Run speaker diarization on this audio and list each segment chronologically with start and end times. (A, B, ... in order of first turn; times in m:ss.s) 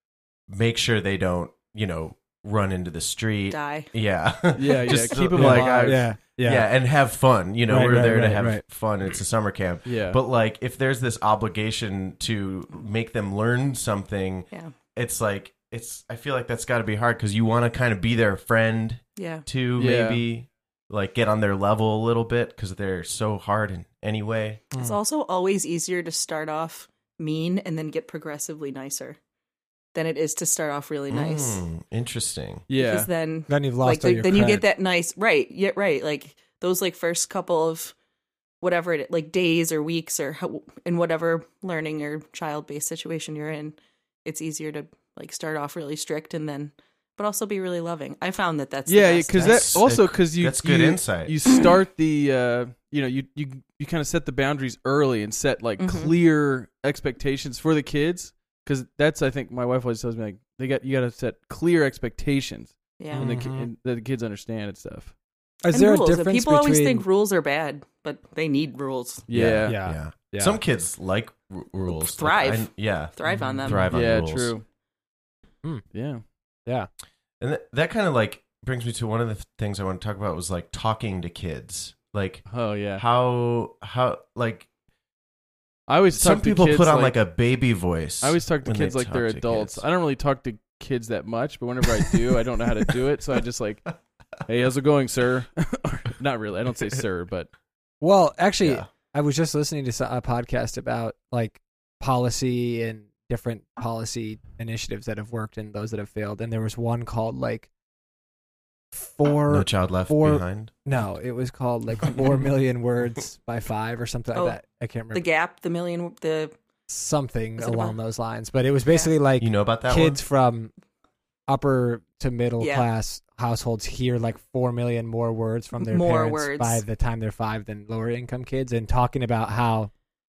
0:00.5-0:24.6 A
0:03.5-0:03.9 B
0:04.6-0:06.1 C
0:04.9-0:06.7 D
0:07.7-0:08.6 D
0:09.8-0:10.2 C
0:19.2-0:19.4 B
0:19.8-0:20.2 C
0:24.7-0:25.0 D
0:24.8-0:29.2 B
0:29.9-0:31.6 B
0:31.1-0:32.6 A
0:32.7-0:33.1 C
0:32.8-0:37.9 B
0:33.5-0:34.6 D
0:38.6-0:49.8 B
0:48.9-1:05.1 C
0:49.4-0:51.4 A
0:55.8-0:56.1 B
1:03.0-1:03.3 B
1:03.2-1:03.7 D
1:05.6-1:07.0 D
1:05.7-1:09.2 B
1:09.3-1:09.8 C
1:09.3-1:14.6 A
1:09.6-1:10.6 D
1:11.9-1:14.0 B
1:13.3-1:13.8 D
1:13.9-1:14.6 C
1:15.9-1:16.2 C
1:17.4-1:22.4 A
1:22.4-1:23.0 C
1:23.0-1:24.7 A
1:25.9-1:27.2 C
1:26.1-1:29.8 A
1:28.2-1:37.5 C
1:38.0-1:47.7 D
1:38.6-1:38.9 A
1:48.9-1:55.2 D
1:49.5-1:50.7 A
1:55.1-1:56.5 B
1:56.9-2:00.7 D
1:57.6-1:58.0 B
1:59.4-2:00.2 A
2:01.5-2:09.9 D
2:02.6-2:02.9 B
2:05.8-2:06.8 B